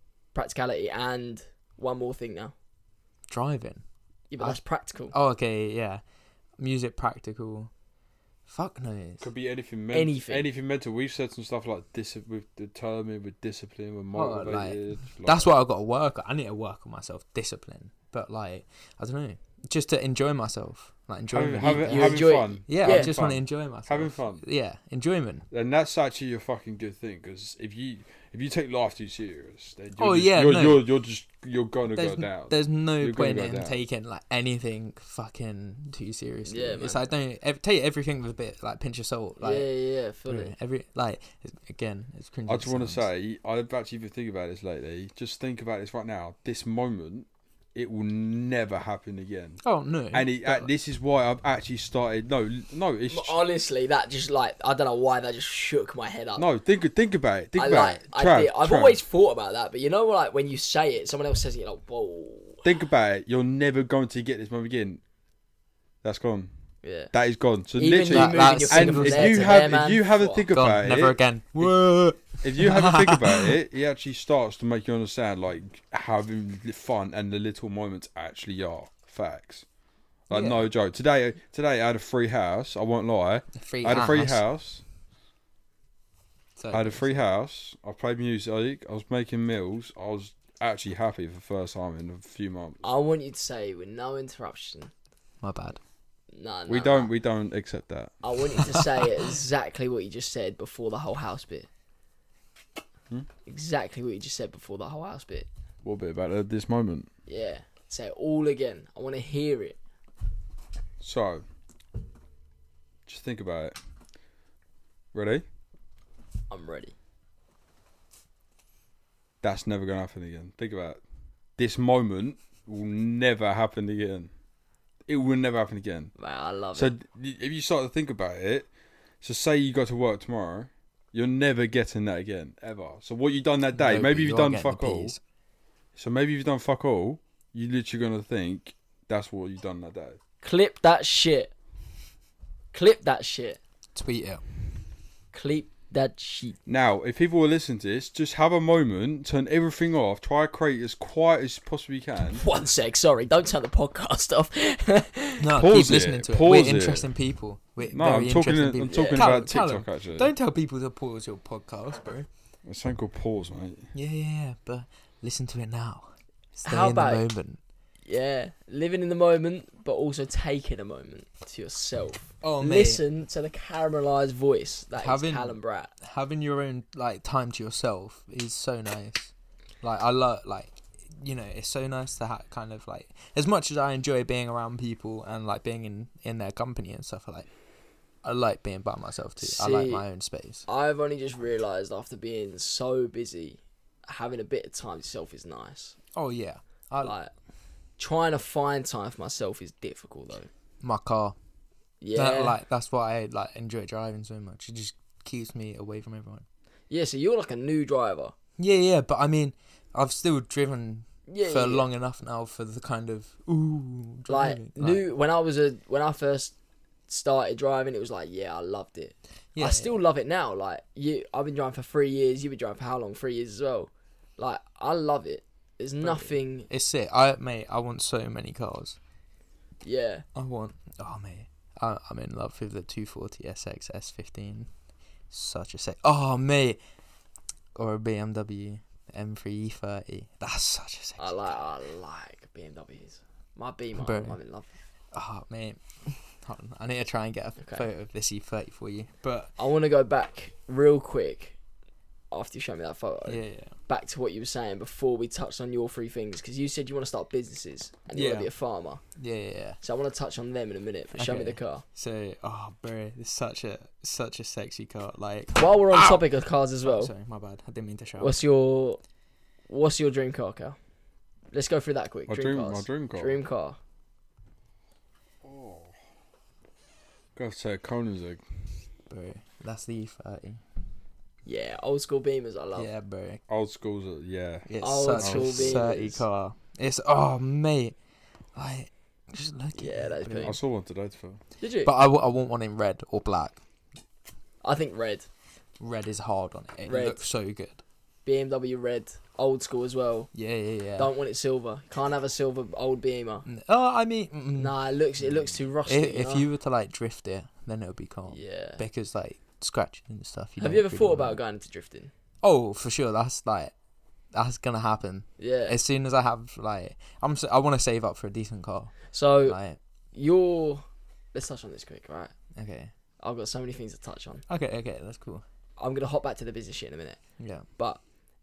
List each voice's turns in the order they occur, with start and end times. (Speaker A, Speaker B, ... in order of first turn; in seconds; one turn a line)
Speaker A: 0.3-2.5
Speaker B: 3.3-3.8
Speaker A: 4.3-5.1
Speaker B: 5.1-6.0
Speaker B: 6.6-7.7
Speaker B: 8.5-9.2
Speaker C: 9.2-15.5
Speaker A: 9.9-10.5
Speaker B: 14.1-25.4
Speaker C: 21.3-24.4
Speaker A: 21.6-23.1
Speaker C: 25.5-33.8
Speaker B: 30.0-30.9
Speaker B: 31.9-39.7
Speaker A: 36.5-37.0
Speaker A: 39.4-40.5
Speaker B: 40.2-43.1
Speaker C: 42.5-53.4
Speaker B: 49.6-50.7
Speaker A: 53.1-56.4
Speaker C: 56.4-59.0
Speaker A: 57.5-62.6
Speaker C: 62.6-65.0
Speaker C: 66.0-66.5
Speaker A: 66.8-67.1
Speaker C: 67.1-71.8
Speaker A: 67.8-70.4
Speaker B: 68.1-69.6
Speaker B: 70.5-73.5
Speaker C: 72.3-79.7
Speaker C: 80.3-84.8
Speaker B: 80.3-80.7
Speaker B: 83.5-84.4
Speaker B: 86.6-87.2
Speaker C: 86.7-92.9
Speaker A: 92.8-94.9
Speaker B: 95.4-95.8
Speaker A: 96.3-97.1
Speaker C: 96.7-98.2
Speaker A: 98.2-101.7
Speaker A: 103.5-105.5
Speaker C: 105.8-107.1
Speaker A: 107.3-109.8
Speaker C: 111.0-111.4
Speaker C: 113.0-113.8
Speaker C: 115.1-115.4
Speaker A: 116.5-116.9
Speaker C: 119.4-121.0
Speaker C: 121.6-124.3
Speaker C: 125.1-126.1
Speaker A: 126.2-126.9
Speaker C: 126.7-128.7
Speaker C: 129.2-135.2
Speaker B: 133.7-135.2
Speaker C: 135.9-140.2
Speaker A: 140.4-141.5
Speaker A: 142.7-143.6
Speaker B: 143.9-144.4
Speaker A: 145.3-146.6
Speaker C: 146.7-152.4
Speaker A: 152.4-155.5
Speaker B: 155.4-162.3
Speaker C: 155.5-157.1
Speaker C: 157.8-160.3
Speaker A: 158.8-159.2
Speaker C: 162.6-163.9
Speaker B: 163.9-167.6
Speaker A: 166.6-167.2
Speaker A: 168.1-175.9
Speaker B: 172.4-173.0
Speaker B: 175.0-187.5
Speaker B: 188.2-190.7
Speaker A: 189.4-190.0
Speaker A: 190.7-196.0
Speaker B: 196.1-197.1
Speaker A: 197.0-197.3
Speaker A: 198.0-200.5
Speaker B: 200.8-201.3
Speaker A: 202.0-202.6
Speaker B: 202.1-206.4
Speaker A: 206.9-208.3
Speaker B: 208.6-215.0
Speaker A: 211.3-211.8
Speaker A: 214.3-216.5
Speaker A: 217.1-226.7
Speaker B: 219.5-219.9
Speaker B: 226.0-229.0
Speaker A: 229.8-230.2
Speaker B: 230.3-234.7
Speaker B: 235.3-236.8
Speaker B: 237.7-241.6
Speaker A: 241.2-244.7
Speaker B: 244.0-244.4
Speaker B: 245.1-249.5
Speaker A: 249.6-251.6
Speaker A: 252.3-259.0
Speaker B: 253.2-253.7
Speaker B: 258.1-258.5
Speaker B: 259.2-259.8
Speaker A: 259.8-261.8
Speaker B: 261.1-266.2
Speaker A: 265.6-267.1
Speaker B: 266.8-268.4
Speaker A: 268.2-269.0
Speaker A: 269.7-270.8
Speaker A: 271.5-273.8
Speaker C: 272.3-273.4
Speaker C: 275.4-275.9
Speaker C: 277.3-278.4
Speaker B: 279.1-280.6
Speaker A: 281.4-282.9
Speaker B: 282.8-283.4
Speaker C: 283.5-285.8
Speaker B: 284.6-287.9
Speaker A: 284.8-286.2
Speaker B: 288.5-290.6
Speaker A: 289.8-290.6
Speaker C: 290.4-291.4
Speaker A: 291.6-291.9
Speaker B: 291.8-293.6
Speaker A: 294.6-295.3
Speaker B: 295.8-297.8
Speaker A: 296.8-297.2
Speaker A: 298.2-300.3
Speaker B: 300.3-301.1
Speaker A: 301.0-303.5
Speaker B: 303.4-304.7
Speaker A: 304.6-306.4
Speaker B: 305.9-311.4
Speaker A: 308.3-308.8
Speaker A: 310.6-312.1
Speaker B: 312.4-313.7
Speaker B: 314.3-319.8
Speaker A: 315.4-315.8
Speaker A: 319.1-319.6
Speaker A: 320.1-322.3
Speaker B: 322.6-322.9
Speaker A: 323.2-324.4
Speaker B: 324.5-325.4
Speaker A: 325.8-327.2
Speaker B: 327.4-327.6